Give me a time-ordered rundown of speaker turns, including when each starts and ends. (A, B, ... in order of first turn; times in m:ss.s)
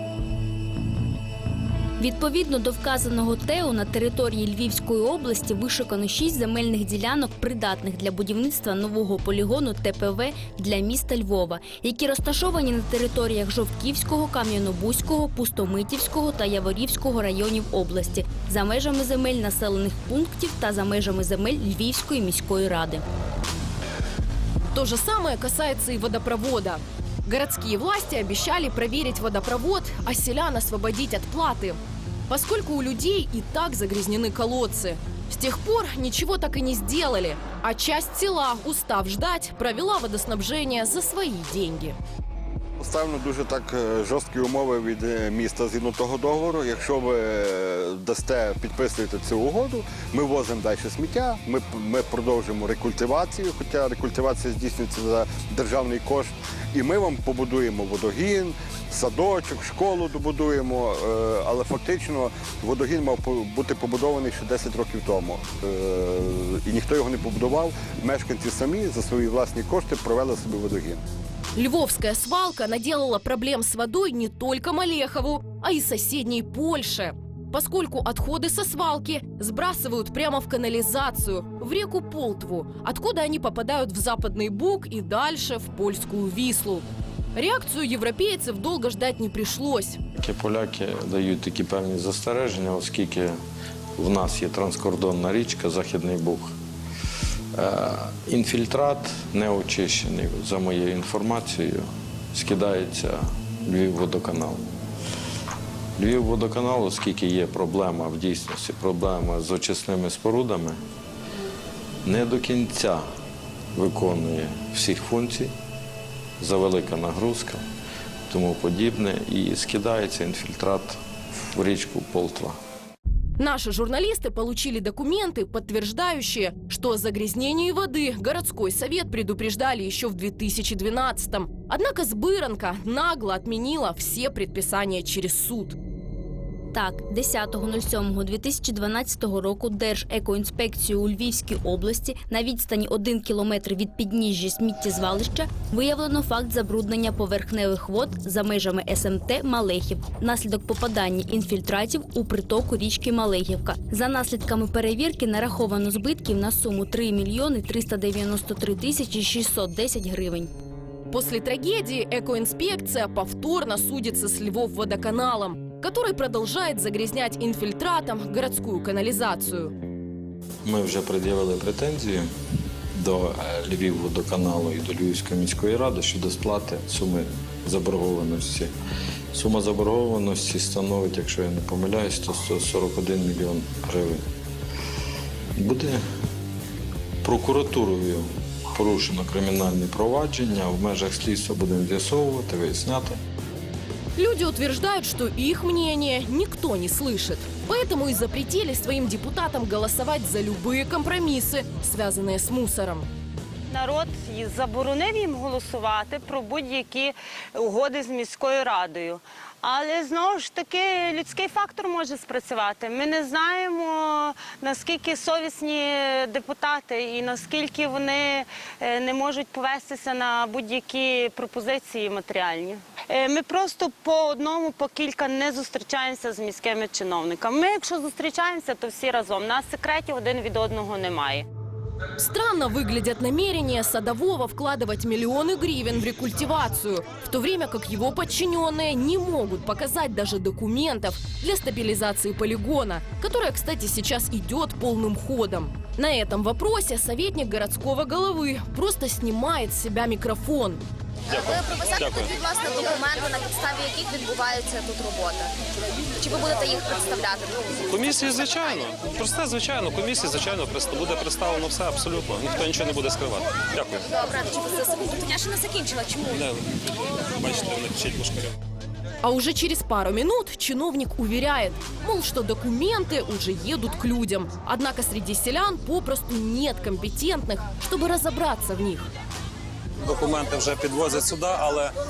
0:02.0-0:23.0 A
0:24.7-0:31.8 B
0:32.3-0:42.0 B
0:42.8-1:11.0 C
1:11.5-1:30.0 B
1:30.2-1:33.4 D
1:34.0-1:36.5 D
1:37.5-1:44.7 D
1:46.0-1:50.8 D
1:52.0-1:53.0 D
1:53.7-1:55.5 D
1:56.4-1:57.6 D
1:58.3-2:01.0 D
2:01.5-2:02.6 D
2:03.4-2:15.8 B
2:16.7-2:40.5 A
2:41.1-2:49.7 B
2:50.6-2:52.3 D
2:52.9-2:58.7 D
2:59.3-3:04.2 D
3:05.6-3:06.0 D
3:07.2-3:13.2 D
3:14.2-3:23.1 B
3:23.7-3:51.4 E
3:52.2-4:10.8 B
4:11.3-4:15.4 F
4:16.2-4:18.0 F
4:19.2-4:23.4 G
4:24.1-4:26.4 F
4:29.2-4:39.1 B
4:40.8-4:41.5 G